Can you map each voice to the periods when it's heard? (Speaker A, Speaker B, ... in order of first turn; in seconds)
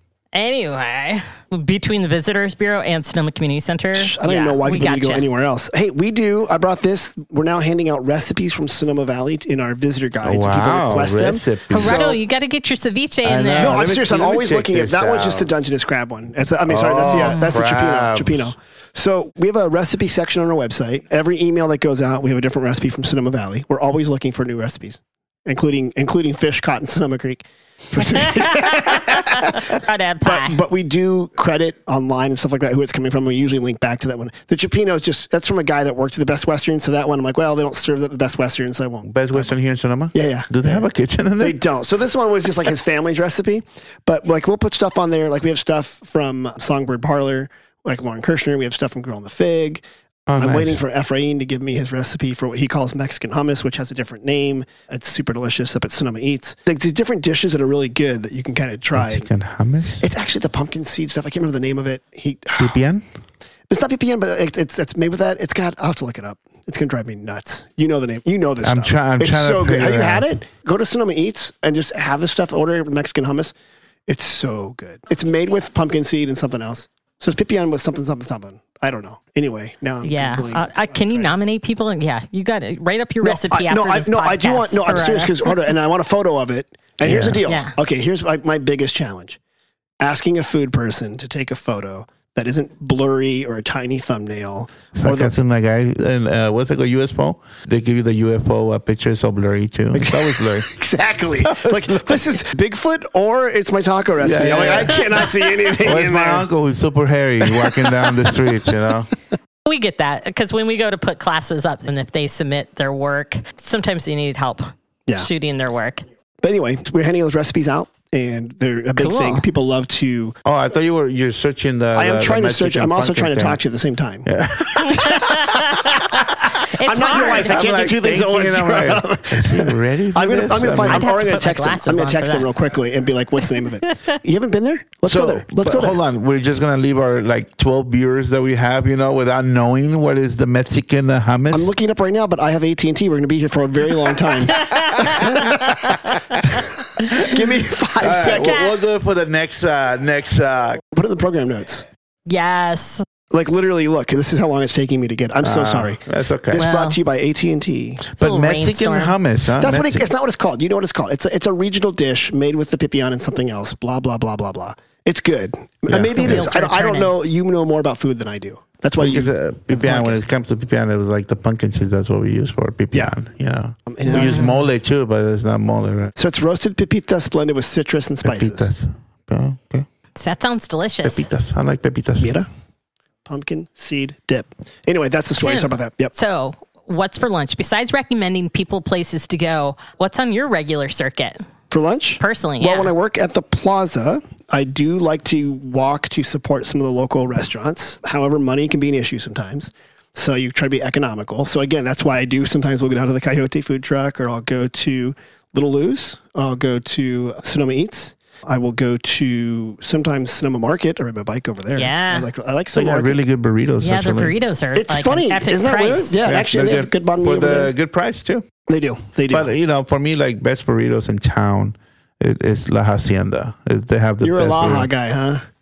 Speaker A: 0.3-5.3, 11.7-13.8, 17.2-17.5, 28.0-30.6, 80.0-85.5, 87.5-87.7, 109.7-116.0, 119.0-119.5, 124.8-127.7, 130.7-132.5, 133.6-134.2, 144.5-147.3, 148.3-148.7, 152.3-153.1, 156.6-157.0, 158.2-159.2, 166.2-167.1, 174.2-174.5, 180.2-181.3, 185.4-191.4, 192.2-192.9, 211.8-212.3, 213.8-216.2
Speaker B: 4.0-12.2, 13.6-39.5, 40.1-40.9, 41.4-49.8, 50.4-59.3, 60.0-62.8, 63.7-73.5, 74.1-81.3, 83.2-89.4, 90.0-95.3, 99.9-106.5, 116.4-120.3, 121.9-124.3, 126.7-136.0, 141.5-145.5, 146.6-148.7, 150.9-151.8, 153.3-158.1, 159.6-170.2, 173.9-174.6, 176.2-178.7, 182.2-182.5, 183.3-186.1, 191.7-213.2, 214.8-217.7, 218.7-219.5, 224.2-225.4
Speaker C: 10.2-12.2, 13.2-15.5, 16.7-18.5, 39.1-41.6, 50.3-50.8, 59.0-60.0, 62.6-63.0, 68.6-70.3, 87.0-87.5, 95.0-100.7, 101.4-102.2, 104.2-109.1, 120.5-123.6, 124.3-125.5, 127.3-131.1, 135.1-141.7, 145.2-145.8, 148.0-150.8, 155.4-156.6, 158.1-160.1, 165.9-166.5, 169.0-176.1, 178.2-179.9, 181.0-182.3, 212.7-214.3, 216.2-218.5, 219.3-224.9